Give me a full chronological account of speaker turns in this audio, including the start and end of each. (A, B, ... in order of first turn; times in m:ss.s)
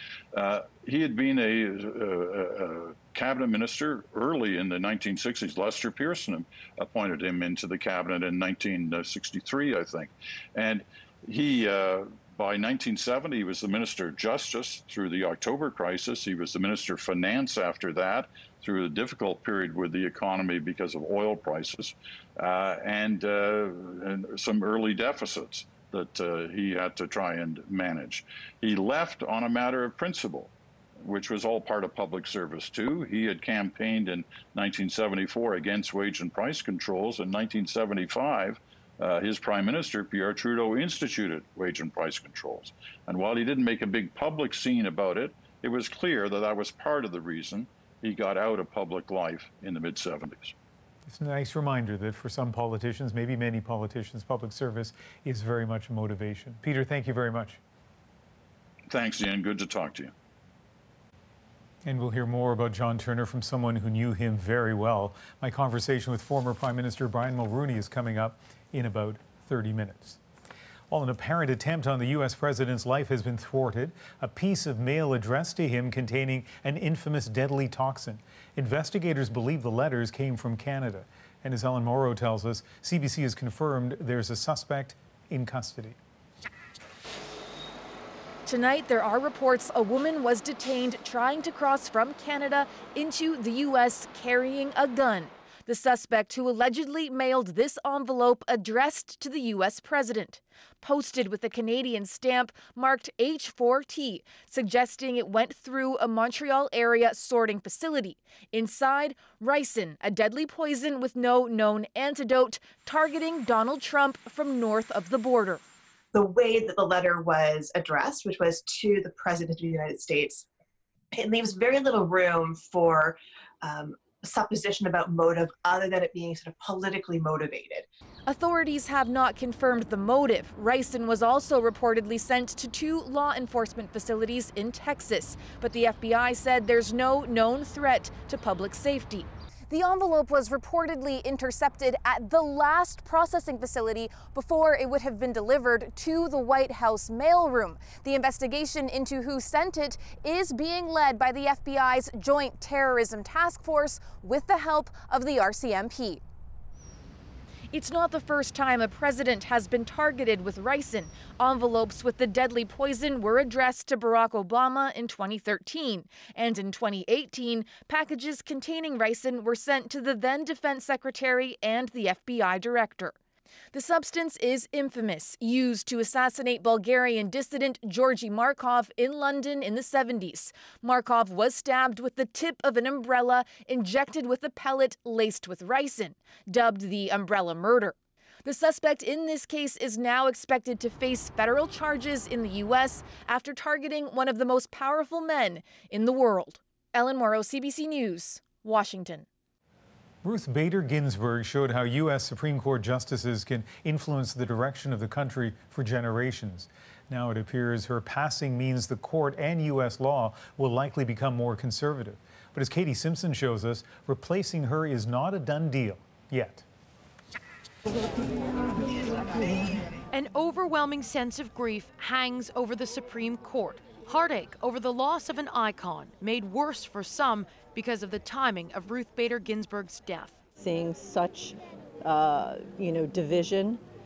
0:00.3-0:50.5 A
0:51.1-0:57.6 B
0:58.9-1:00.1 A
1:01.8-1:10.2 B
1:10.9-1:26.0 B
1:28.4-1:55.6 C
1:56.1-2:00.4 D
2:01.1-2:07.8 D
2:08.2-2:36.2 C
2:37.7-2:53.2 C
2:53.7-3:19.2 C
3:20.2-3:36.6 B
3:40.1-3:50.4 C
3:50.6-3:53.8 E